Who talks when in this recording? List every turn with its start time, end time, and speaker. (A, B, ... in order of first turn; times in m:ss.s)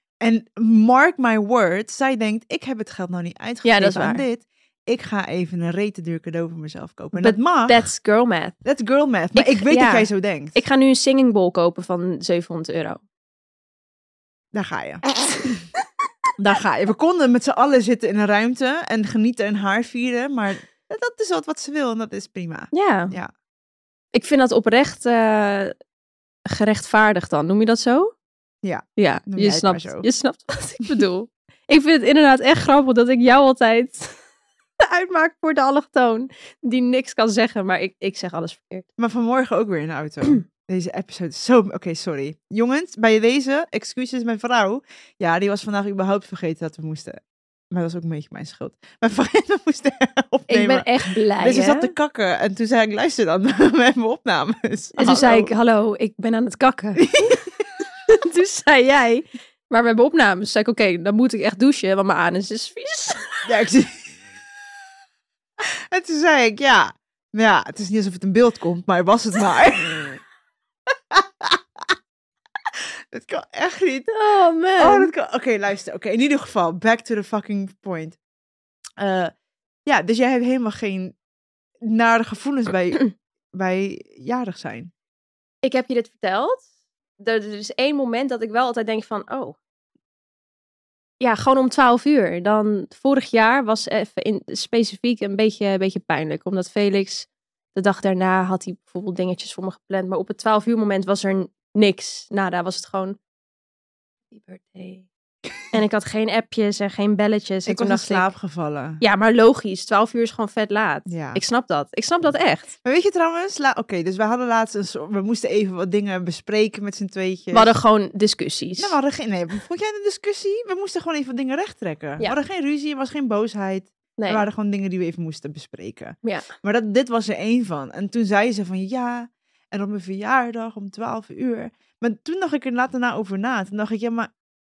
0:00.2-0:07.9 A
0:03.6-0:04.2 B
0:07.2-0:08.6 B
0:08.6-0:10.6 A
0:09.4-0:13.0 B
0:14.5-0:15.7 A
0:16.4-0:23.3 A
0:22.7-0:23.2 B
0:24.1-0:25.8 B
0:26.5-0:28.1 B
0:28.6-0:30.1 A
0:29.0-0:34.2 B
0:34.8-0:38.9 B
0:39.0-0:47.2 A
0:47.7-0:55.5 A
0:50.5-0:51.9 B
0:55.0-0:57.4 B
0:57.0-0:57.5 A
0:58.1-1:03.5 B
1:03.5-1:04.2 A
1:05.6-1:10.2 A
1:11.1-1:11.9 A
1:12.7-1:14.1 A
1:14.1-1:15.1 B
1:14.8-1:18.2 A
1:19.0-1:19.3 A
1:19.9-1:21.2 A
1:21.8-1:24.9 A
1:25.6-1:26.7 B
1:27.2-1:29.6 B
1:31.2-1:43.2 B
1:44.3-1:45.1 B
1:45.7-1:48.3 B
1:47.7-1:49.0 A
1:49.0-1:52.7 B
1:51.1-1:51.4 A
1:52.8-1:57.7 A
1:57.5-1:59.0 B
1:58.8-2:14.3 A
2:04.2-2:04.5 B